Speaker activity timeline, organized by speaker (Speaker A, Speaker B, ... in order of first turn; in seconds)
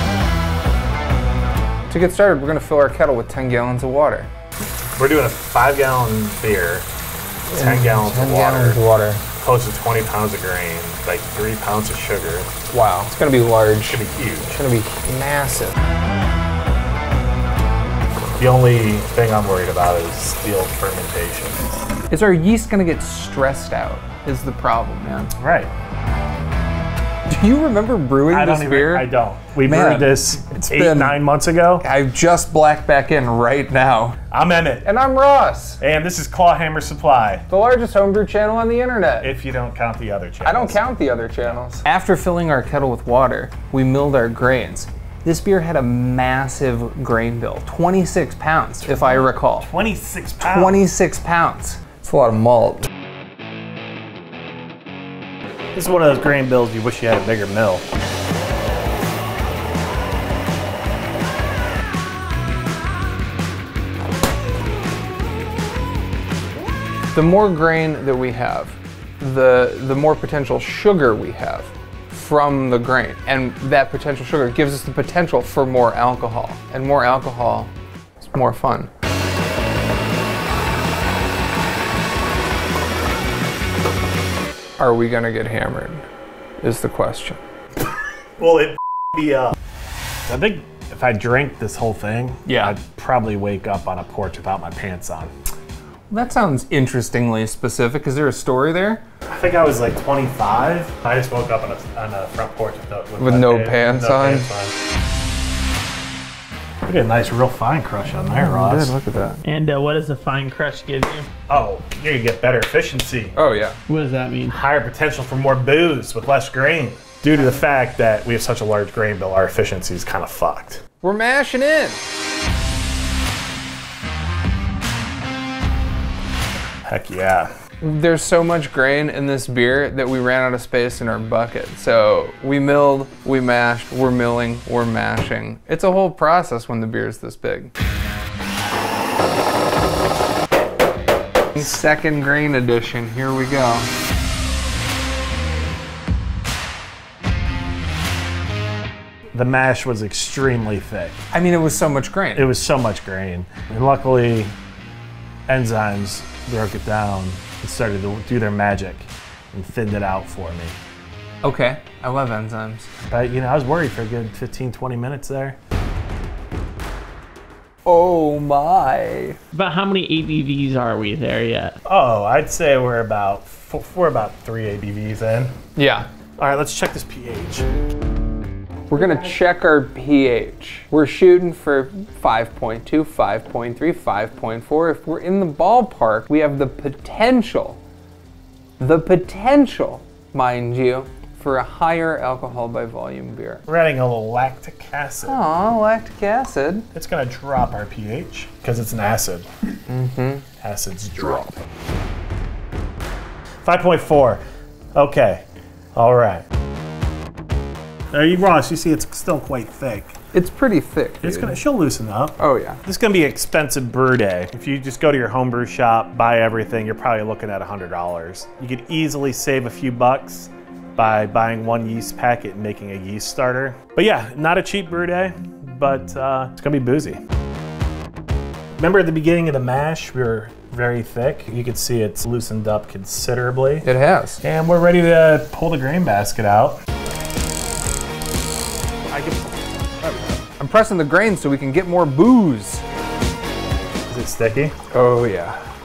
Speaker A: 1.9-4.3, 7.5-9.2, 12.7-15.8, 22.1-25.3, 27.3-29.1, 29.6-31.2, 31.8-34.2, 34.8-35.8, 37.5-39.3, 40.4-49.7, 50.4-52.9, 67.1-78.9, 84.8-86.0, 86.6-87.4, 92.5-92.8, 96.1-99.0, 103.2-104.5, 108.4-109.4, 113.3-113.8, 121.0-122.0, 127.8-137.7, 141.5-143.9, 151.3-152.5, 161.4-162.9, 167.9-169.4, 175.8-176.1, 178.9-187.8, 188.8-193.6, 195.2-196.9, 199.9-200.4, 210.3-211.6, 212.4-212.8, 233.8-234.4, 240.6-242.8, 244.9-245.6
Speaker B: 5.0-6.9, 7.5-8.8, 9.4-12.5, 13.9-14.6, 18.4-21.7, 25.4-25.7, 28.3-31.9, 34.3-34.9, 35.8-37.5, 39.2-40.9, 49.0-50.9, 55.7-57.9, 88.4-89.5, 90.2-95.3, 99.3-104.8, 106.9-109.0, 111.5-113.3, 114.5-120.8, 126.9-127.5, 149.3-151.3, 152.3-154.5, 155.5-160.8, 163.1-165.6, 171.8-175.6, 176.4-177.7, 193.7-195.4, 196.9-199.5, 200.6-201.6, 203.6-204.4, 204.9-205.4, 205.9-206.4, 208.1-210.2, 211.2-227.2, 228.8-233.9, 234.4-236.8, 239.1-239.4, 240.0-240.4, 244.1-244.8
Speaker C: 109.4-111.3, 113.9-114.6, 169.5-171.8